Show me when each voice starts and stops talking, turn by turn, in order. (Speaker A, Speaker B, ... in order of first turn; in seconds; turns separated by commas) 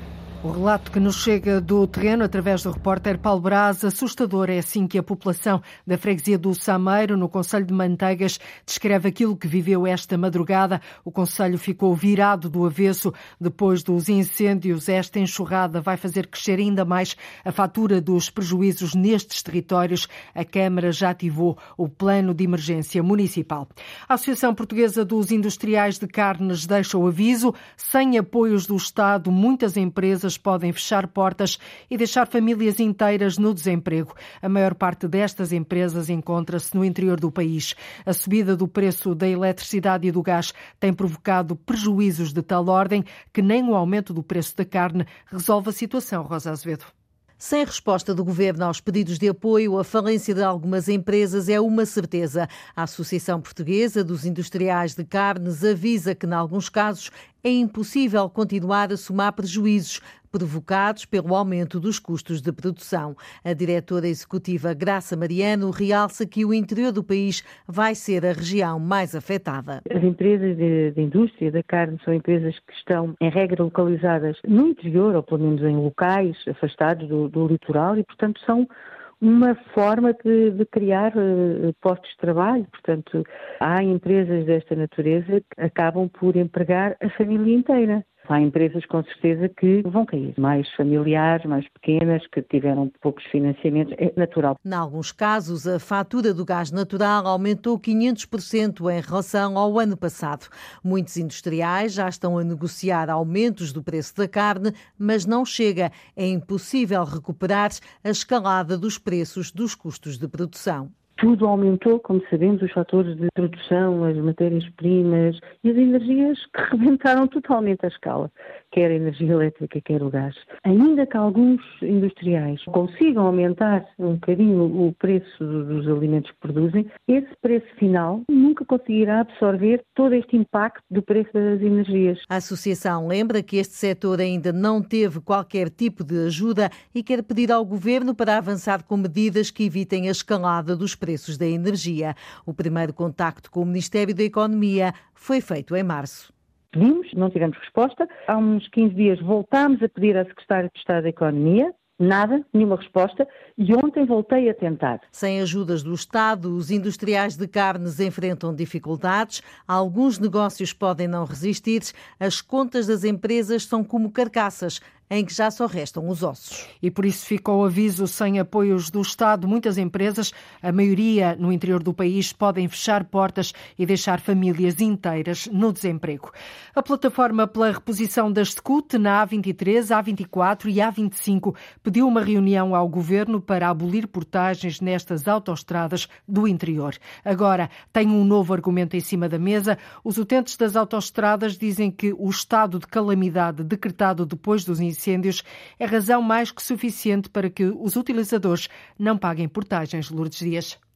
Speaker A: 0.4-46.9, Speaker B: 47.4-69.8, Speaker C: 69.9-78.7, Speaker C: 79.2-94.6, Speaker B: 94.7-110.9, Speaker C: 111.2-132.3, Speaker B: 132.3-146.3, Speaker C: 146.7-155.1, Speaker B: 155.1-166.7, Speaker A: 166.8-200.8